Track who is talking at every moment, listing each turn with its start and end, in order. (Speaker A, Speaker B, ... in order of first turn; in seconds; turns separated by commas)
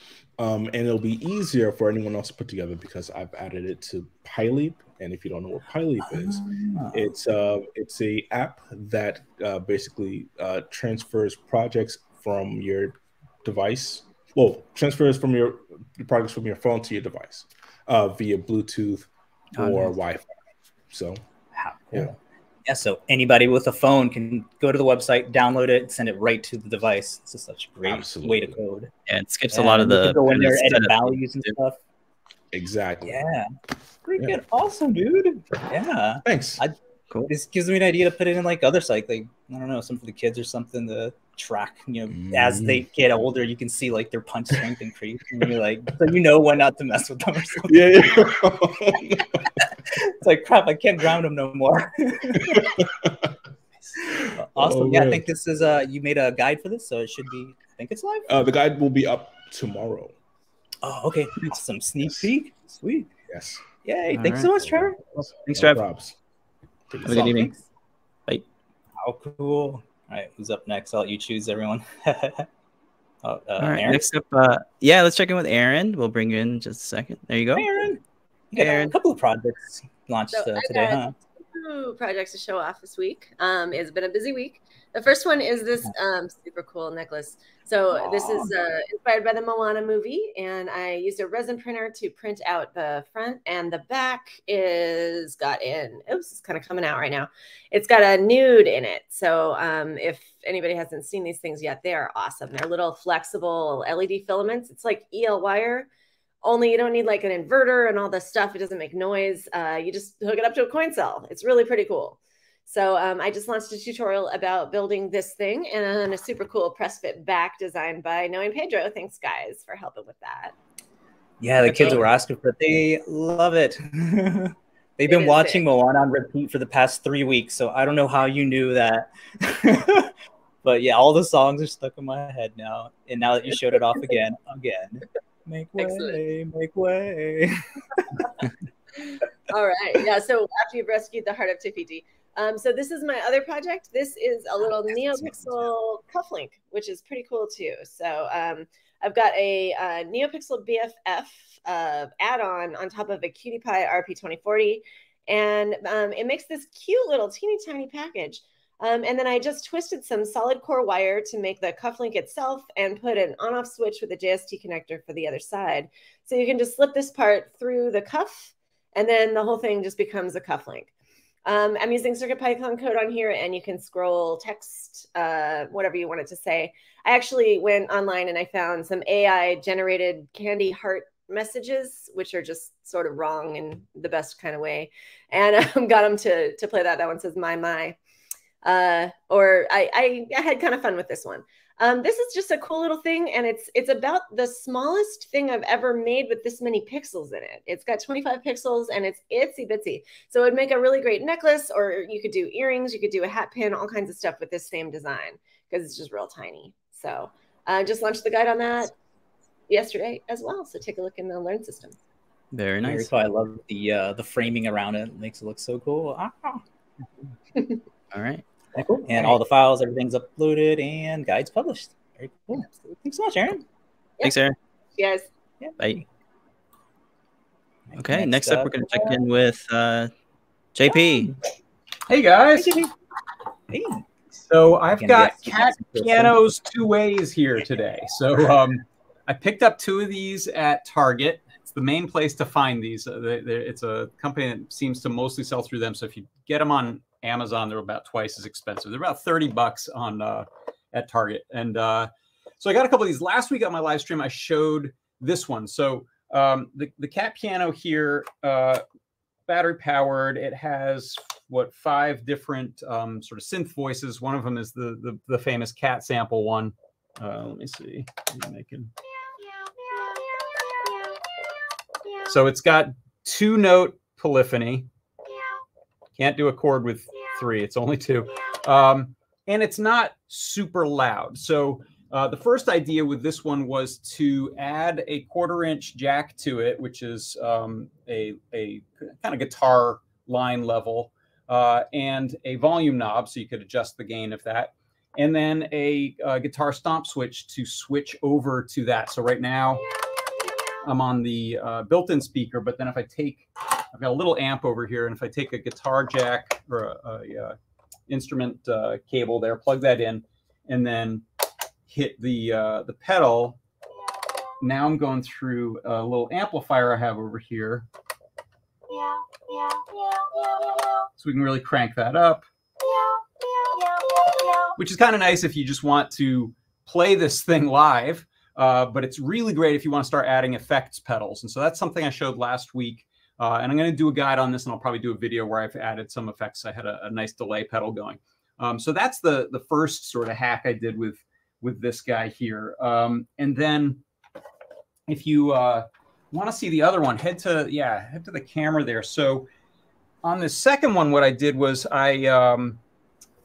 Speaker A: 0.4-20.4, Speaker B: 6.0-7.1, Speaker C: 19.6-19.9, Speaker A: 20.9-21.2, Speaker B: 21.5-28.9, Speaker A: 27.9-28.6, Speaker C: 29.1-31.6, Speaker B: 29.5-31.8, Speaker A: 32.5-33.2, Speaker B: 33.1-33.5, Speaker B: 34.1-36.8, Speaker A: 36.2-36.6, Speaker B: 37.3-48.1, Speaker A: 42.1-42.9, Speaker A: 47.6-49.5, Speaker B: 49.6-52.7, Speaker A: 52.4-53.3, Speaker A: 54.0-55.3, Speaker B: 54.4-58.3, Speaker A: 58.3-60.1, Speaker B: 60.8-63.1, Speaker A: 63.3-63.6, Speaker B: 63.8-65.0, Speaker C: 64.1-64.5, Speaker A: 64.6-66.2, Speaker C: 65.5-65.8, Speaker A: 66.9-67.3, Speaker C: 67.0-67.5, Speaker B: 67.1-67.6, Speaker B: 69.0-72.5, Speaker B: 73.2-74.0, Speaker C: 73.6-77.8, Speaker B: 77.5-81.1, Speaker C: 78.6-78.9, Speaker D: 80.3-105.9, Speaker B: 87.9-88.5, Speaker D: 106.4-120.5, Speaker B: 121.4-138.4, Speaker C: 121.6-122.0, Speaker D: 125.1-125.7, Speaker D: 135.8-136.2, Speaker D: 139.5-170.9, Speaker D: 171.5-188.0, Speaker D: 188.6-208.9, Speaker D: 209.7-212.0, Speaker C: 212.5-213.1, Speaker B: 212.8-216.6, Speaker C: 218.1-218.4, Speaker B: 218.7-223.7, Speaker C: 224.2-224.6, Speaker D: 225.0-225.3, Speaker B: 225.6-226.0, Speaker B: 227.9-229.2, Speaker C: 228.0-230.1, Speaker C: 230.8-231.3, Speaker E: 232.1-232.8, Speaker B: 232.6-232.9, Speaker B: 233.7-234.1, Speaker E: 234.5-258.8, Speaker B: 234.9-236.3, Speaker E: 259.5-268.9, Speaker E: 272.3-274.9, Speaker E: 276.2-299.9, Speaker E: 300.8-307.6, Speaker E: 308.1-311.2, Speaker E: 311.9-313.6, Speaker E: 314.6-317.9, Speaker E: 321.2-322.4, Speaker E: 324.8-344.0, Speaker E: 345.1-349.5, Speaker E: 350.2-352.8